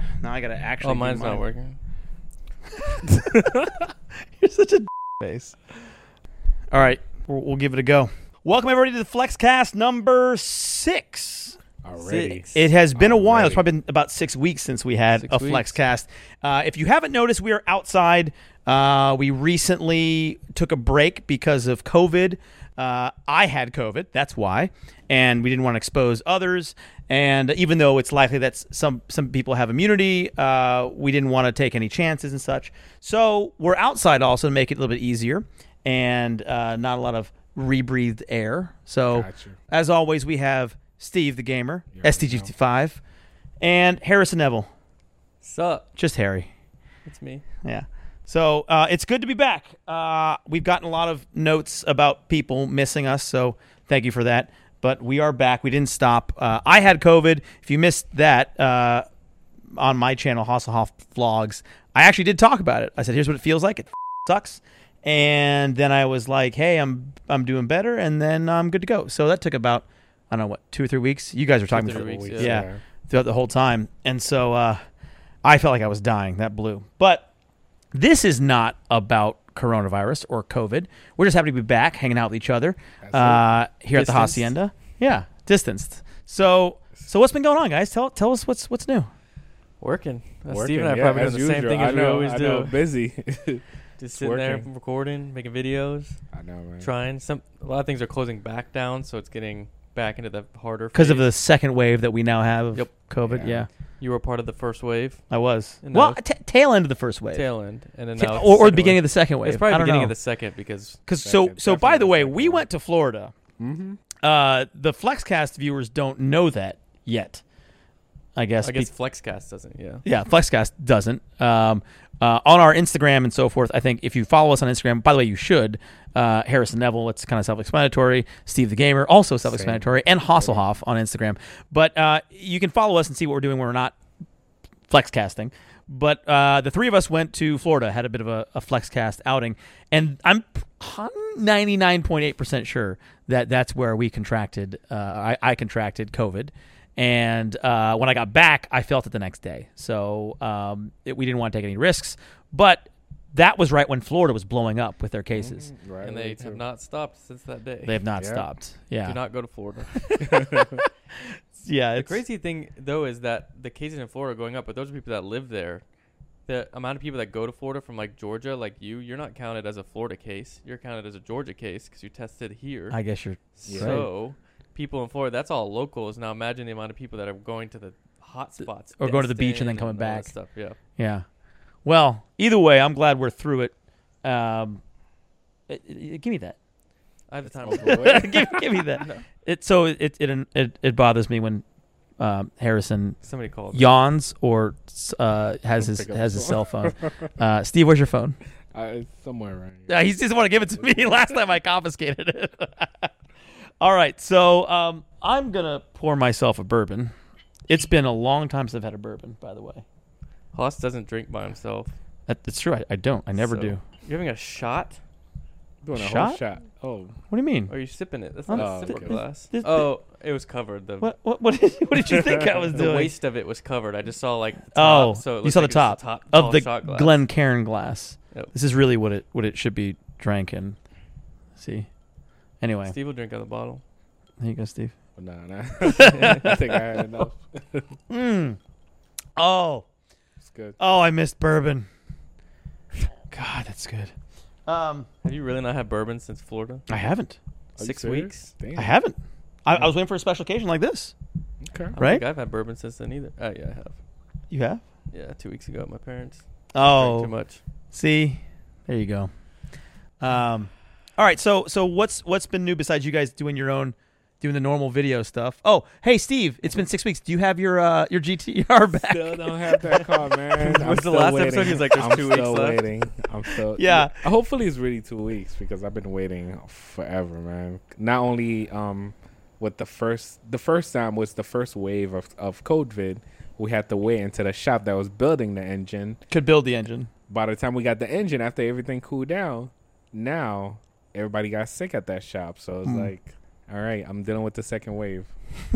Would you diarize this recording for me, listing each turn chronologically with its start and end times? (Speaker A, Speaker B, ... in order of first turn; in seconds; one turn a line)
Speaker A: 0.2-1.4
Speaker B: 0.8-1.8
Speaker A: 2.8-3.7
Speaker A: 4.4-5.6
Speaker A: 6.7-11.6
Speaker C: 11.8-13.7
Speaker B: 12.0-12.6
Speaker A: 12.5-43.0
Speaker B: 15.1-15.7
Speaker C: 39.1-39.6
Speaker C: 41.9-42.5
Speaker A: 43.6-44.7
Speaker B: 45.4-45.9
Speaker A: 46.0-46.5
Speaker B: 47.0-47.4
Speaker A: 47.6-59.0
Speaker A: 59.7-74.8
Speaker B: 71.7-72.6
Speaker C: 72.0-72.8
Speaker A: 75.4-77.3
Speaker A: 77.9-89.1
Speaker C: 83.0-83.4
Speaker B: 83.9-84.5
Speaker B: 89.8-92.8
Speaker C: 90.5-94.7
Speaker B: 94.0-96.2
Speaker C: 96.3-96.9
Speaker B: 96.8-101.2
Speaker A: 100.9-103.7
Speaker C: 103.2-103.7
Speaker B: 104.0-105.2
Speaker A: 105.3-107.4
Speaker B: 105.8-106.2
Speaker B: 107.3-111.0
Speaker A: 108.2-110.1
Speaker A: 111.1-113.3
Speaker C: 111.2-112.7
Speaker C: 113.6-114.0
Speaker A: 114.2-117.4
Speaker A: 118.3-118.9
Speaker B: 118.6-120.0
Speaker A: 120.0-133.9
Speaker C: 129.4-130.6
Speaker A: 134.9-155.7
Speaker C: 155.3-156.6
Speaker B: 156.0-158.0
Speaker A: 157.8-159.2
Speaker C: 158.2-158.4
Speaker B: 159.0-160.3
Speaker A: 159.9-160.9
Speaker C: 160.2-160.8
Speaker A: 161.6-162.2
Speaker B: 161.9-165.8
Speaker B: 166.5-173.0
Speaker A: 172.9-174.1
Speaker B: 173.6-180.8
Speaker C: 173.7-174.0
Speaker A: 178.6-180.3
Speaker A: 181.0-181.2
Speaker A: 181.8-184.8
Speaker A: 185.7-186.6
Speaker B: 187.3-188.2
Speaker C: 187.6-188.8
Speaker A: 187.7-191.6
Speaker B: 189.0-189.2
Speaker A: 192.2-193.2
Speaker B: 193.2-194.0
Speaker A: 193.7-198.4
Speaker C: 195.8-197.3
Speaker C: 198.7-199.9
Speaker A: 199.9-203.1
Speaker C: 200.7-201.2
Speaker A: 203.8-207.1
Speaker A: 207.7-209.8
Speaker B: 210.5-211.9
Speaker A: 212.3-213.8
Speaker B: 213.4-215.0
Speaker C: 215.8-217.2
Speaker A: 215.9-216.4
Speaker A: 217.3-217.7
Speaker B: 217.7-221.1
Speaker A: 218.5-219.9
Speaker C: 218.6-219.2
Speaker A: 221.0-223.1
Speaker B: 222.7-227.2
Speaker A: 224.7-230.8
Speaker A: 231.6-231.9
Speaker A: 232.6-232.9
Speaker B: 232.8-233.8
Speaker A: 234.4-234.9
Speaker C: 235.2-237.9
Speaker A: 235.8-236.6
Speaker A: 238.1-238.6
Speaker A: 239.4-239.8
Speaker C: 240.4-240.8
Speaker A: 240.8-241.9
Speaker A: 243.3-244.1
Speaker A: 244.7-245.1
Speaker B: 245.2-246.8
Speaker A: 246.9-247.4
Speaker B: 247.8-248.5
Speaker C: 247.8-248.9
Speaker A: 248.7-251.1
Speaker C: 251.6-251.9
Speaker B: 251.9-253.9
Speaker A: 252.0-252.2
Speaker A: 254.5-254.8
Speaker B: 255.1-257.6
Speaker A: 256.7-257.3
Speaker A: 257.9-259.3
Speaker A: 260.2-270.1
Speaker C: 268.9-286.2
Speaker B: 270.6-272.8
Speaker A: 273.8-274.2
Speaker A: 286.3-287.1
Speaker C: 287.3-295.4
Speaker A: 292.8-293.1